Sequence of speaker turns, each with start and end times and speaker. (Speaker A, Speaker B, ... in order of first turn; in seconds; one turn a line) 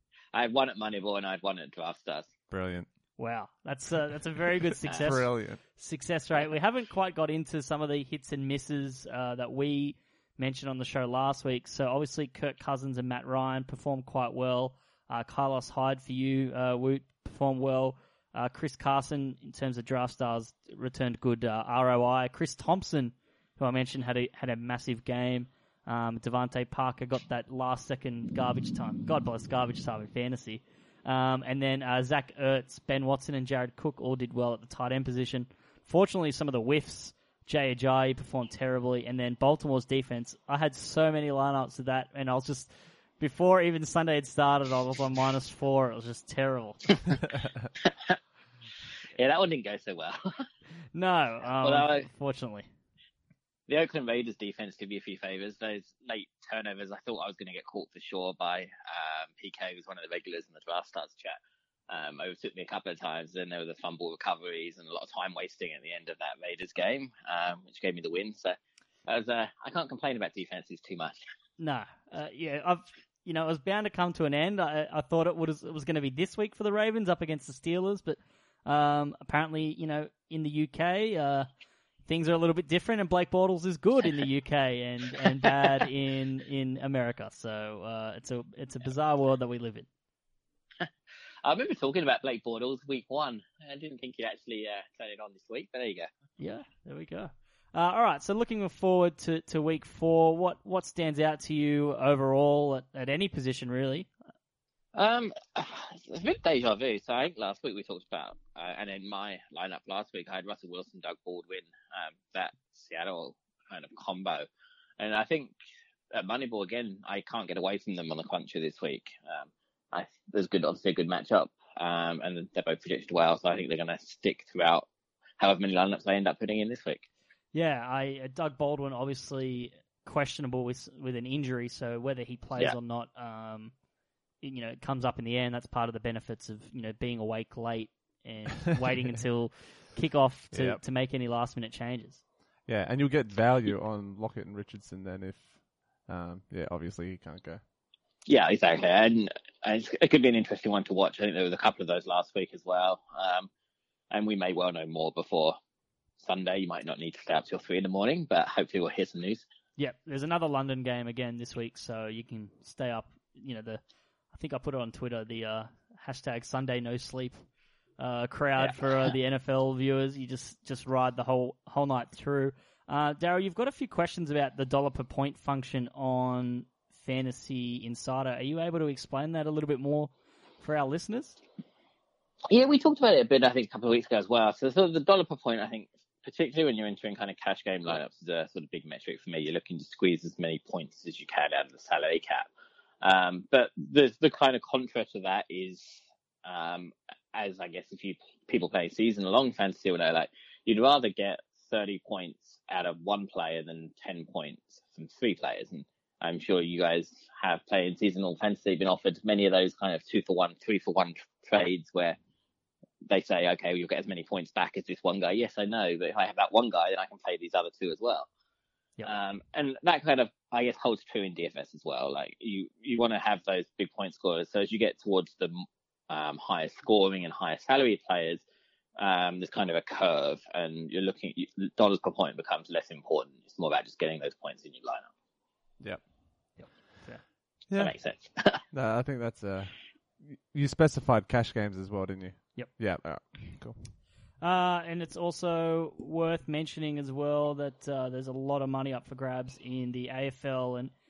Speaker A: 0.3-2.3
Speaker B: 2.5-2.9
Speaker C: 3.2-47.1
Speaker B: 4.9-5.6
Speaker A: 47.9-48.2
Speaker A: 49.1-50.4
Speaker C: 50.9-52.7
Speaker A: 51.6-52.1
Speaker A: 53.7-61.4
Speaker A: 61.9-71.2
Speaker C: 71.6-81.5
Speaker C: 82.1-89.9
Speaker A: 91.4-96.1
Speaker C: 96.4-104.1
Speaker A: 105.0-114.5
Speaker A: 115.0-115.5
Speaker A: 116.1-124.9
Speaker A: 125.4-127.0
Speaker C: 127.5-133.7
Speaker C: 134.4-142.2
Speaker B: 140.5-140.8
Speaker B: 142.7-145.5
Speaker B: 146.1-147.6
Speaker A: 148.3-153.5
Speaker A: 154.1-155.6
Speaker A: 156.2-159.4
Speaker C: 159.8-163.8
Speaker C: 164.3-167.5
Speaker C: 168.0-181.4
Speaker A: 182.5-192.5
Speaker A: 193.0-212.2
Speaker A: 213.1-218.3
Speaker A: 219.1-228.4
Speaker A: 229.0-235.1
Speaker C: 236.6-237.2
Speaker A: 237.8-238.6
Speaker B: 238.7-243.8
Speaker C: 244.4-250.9